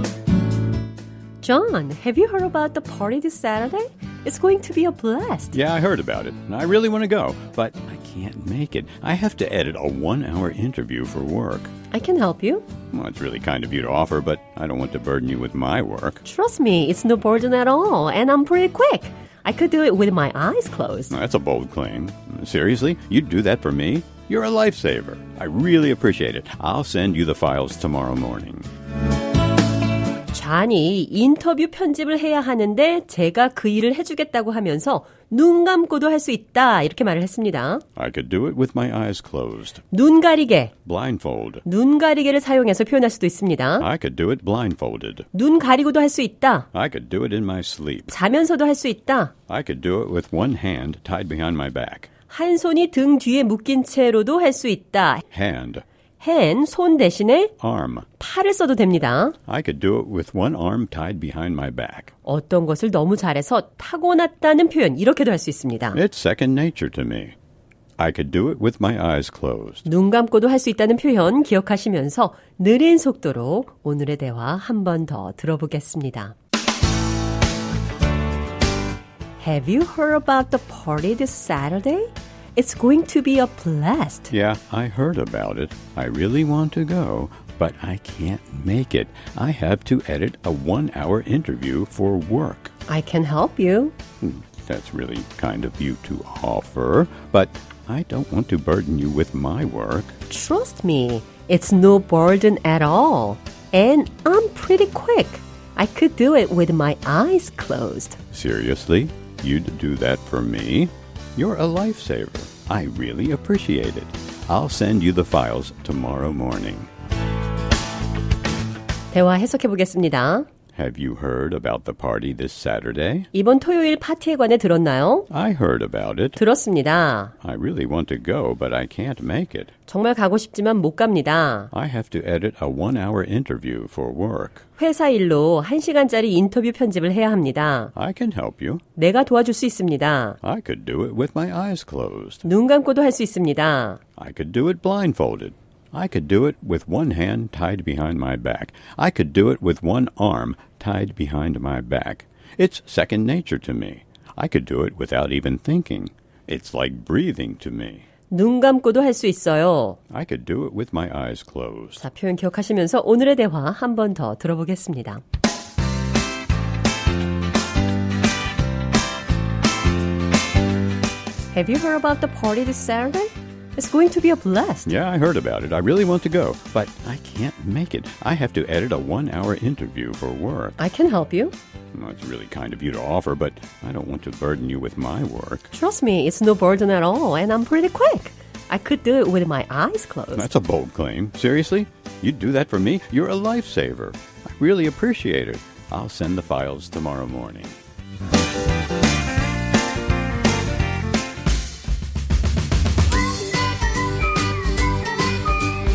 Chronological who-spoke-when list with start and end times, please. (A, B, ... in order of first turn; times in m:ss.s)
0:01.4-0:05.6 A
0:05.5-0:11.7 B
0:11.9-0:12.6 A
0:12.9-0:16.2 B
0:16.2-0:21.1 A
0:21.1-0:28.7 B
0:30.3-0:37.8 A
0:38.0-0:39.8 B
0:39.9-0:40.7 A
0:40.8-0:41.6 B
0:41.6-0:43.9 A
0:43.8-0:45.2 B
0:45.3-0:46.7 A
0:46.7-0:48.1 B
0:48.1-0:49.3 A
0:49.5-0:52.1 B
0:52.3-0:55.2 A
0:55.3-0:55.8 B
0:56.2-0:57.5 A
0:57.6-0:58.1 B
0:58.2-0:59.4 A
0:59.5-1:02.1 B
1:02.2-1:06.0 A
1:05.9-1:07.3 B
1:08.0-1:09.8 B
1:09.8-1:16.3 A
1:19.4-1:24.3 A
1:24.3-1:32.7 B
1:32.9-1:33.9 A
1:34.2-1:40.2 B
1:40.3-1:48.2 A
1:48.3-1:56.9 B
1:59.1-2:00.5 A
2:00.7-2:03.3 B
2:03.3-2:05.3 A
2:05.3-2:06.4 B
2:06.4-2:07.3 A
2:07.4-2:09.7 B
2:09.9-2:11.7 A
2:11.7-2:14.6 B
2:14.8-2:17.9 A
2:17.9-2:18.8 B
2:19.0-2:20.4 A
2:20.4-2:22.4 B
2:22.4-2:24.0 A
2:24.2-2:38.0 B
2:38.3-2:40.0 A
2:40.1-2:42.0 B
2:42.0-2:45.2 A
2:51.5-2:54.9 A
2:54.8-3:00.8 B
3:00.8-3:01.5 A
3:01.9-3:05.7 B
3:05.7-3:10.5 A
3:10.3-3:17.8 B